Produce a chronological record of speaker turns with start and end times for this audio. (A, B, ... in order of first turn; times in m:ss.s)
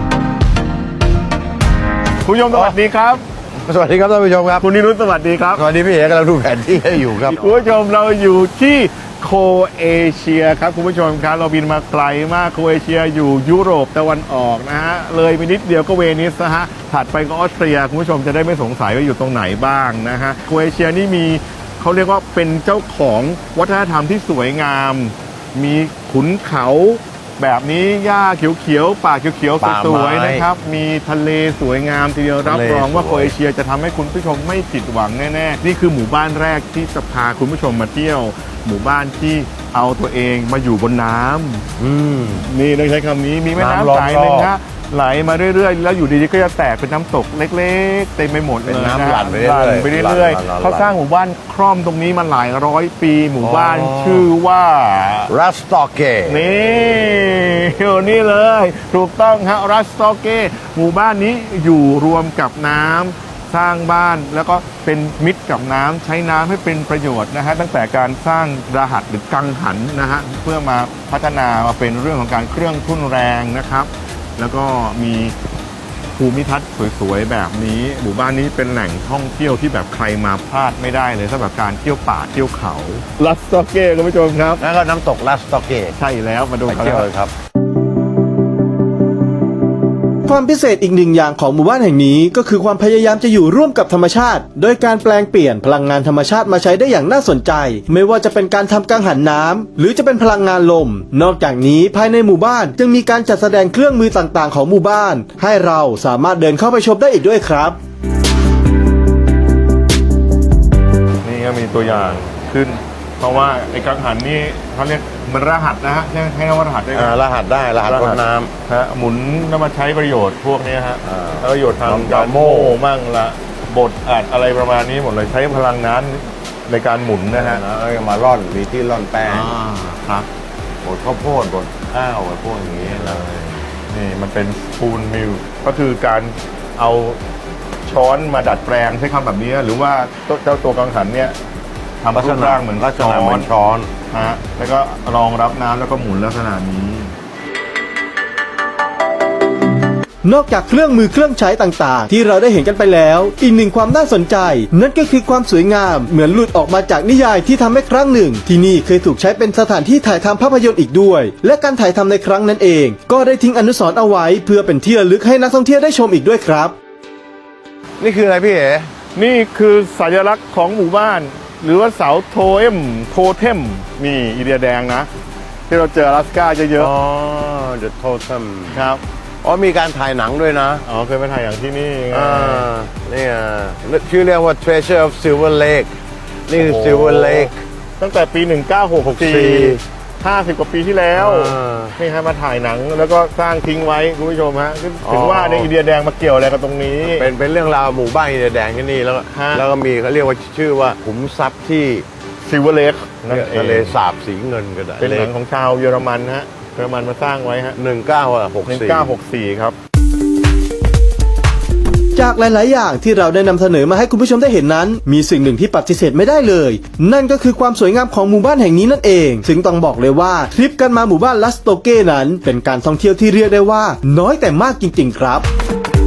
0:02.2-0:03.2 A
0:02.5-0:02.8 B
0:03.6-0:04.7 B
0:04.6-0:05.7 A
0:05.6-0:07.5 B
0:07.3-0:41.7 A
0:29.6-0:30.5 B
0:32.4-0:33.3 B
0:41.8-0:42.5 B
0:42.5-0:55.3 A
0:43.6-0:44.5 B
0:48.7-0:50.9 B
0:53.4-0:54.3 B
0:55.3-0:56.6 B
0:56.3-1:15.4 A
1:16.2-1:24.6 A
1:24.6-1:26.0 B
1:26.0-1:27.1 A
1:26.7-1:27.3 B
1:30.3-1:47.8 C
1:51.2-1:57.2 A
1:56.9-1:58.5 B
1:57.8-2:07.6 A
2:01.0-2:02.8 B
2:07.3-2:09.6 B
2:09.3-2:10.3 A
2:10.8-2:13.3 B
2:12.8-2:17.2 A
2:17.9-2:21.4 A
2:22.0-2:23.5 A
2:22.1-2:23.9 B
2:24.1-2:27.1 A
2:30.2-2:46.8 C
2:48.0-2:48.9 B
2:49.2-2:55.1 A
2:55.7-2:56.9 A
2:56.8-2:58.9 B
2:58.7-2:59.0 A
2:59.4-3:00.8 B
3:00.9-3:02.7 A
3:02.1-3:05.9 B
3:06.5-3:07.6 B
3:06.6-3:17.3 A
3:09.1-3:09.8 B
3:11.2-3:12.0 B
3:15.0-3:15.7 B
3:17.0-3:22.1 B
3:19.3-3:19.7 A
3:22.5-3:24.0 A
3:23.3-3:25.3 B
3:25.0-3:27.8 A
3:27.8-3:29.2 B
3:28.7-3:29.8 A
3:32.2-3:45.5 C